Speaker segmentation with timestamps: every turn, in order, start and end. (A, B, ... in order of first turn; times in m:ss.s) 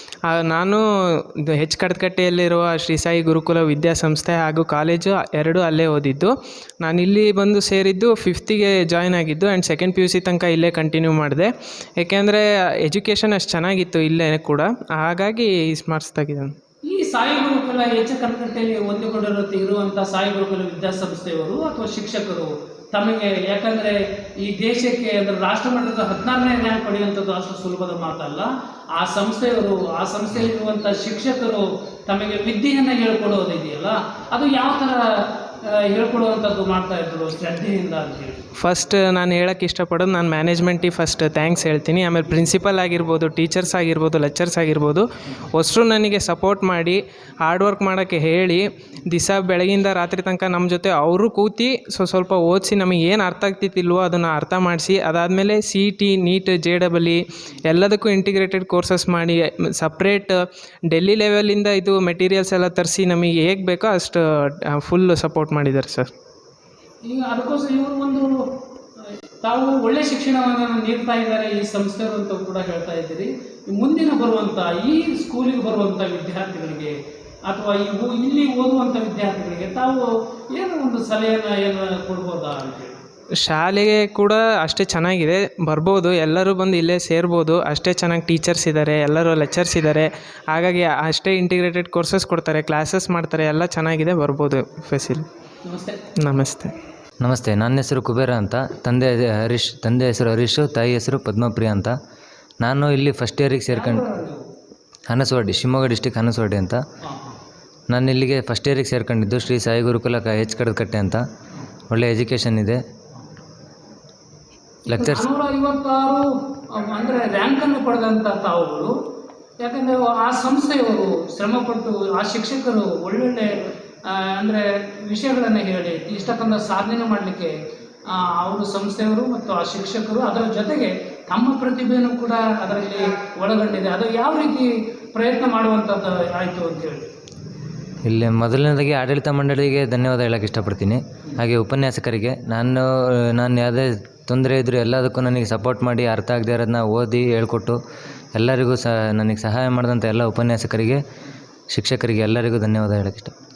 0:00.3-0:00.8 A
0:01.5-0:16.5 A
0:16.8-0:38.4 B
0:38.6-1:00.4 A
1:00.9-1:06.1 A
1:07.0-1:08.4 B
1:09.4-1:16.9 B
1:17.4-1:23.0 B
1:23.4-1:35.3 A
1:35.6-1:36.0 B
1:36.2-1:36.7 A
1:37.2-1:41.9 C
1:42.6-1:44.0 C
1:43.7-1:44.4 B
1:45.1-1:46.8 C
1:47.0-1:47.4 B
1:47.9-1:51.2 C
1:51.9-1:52.8 C
1:54.8-1:58.9 B
1:54.9-1:55.2 C
1:59.6-2:07.5 B
2:08.1-2:17.1 B
2:18.0-2:27.8 C
2:28.3-2:31.0 C
2:31.7-2:33.3 C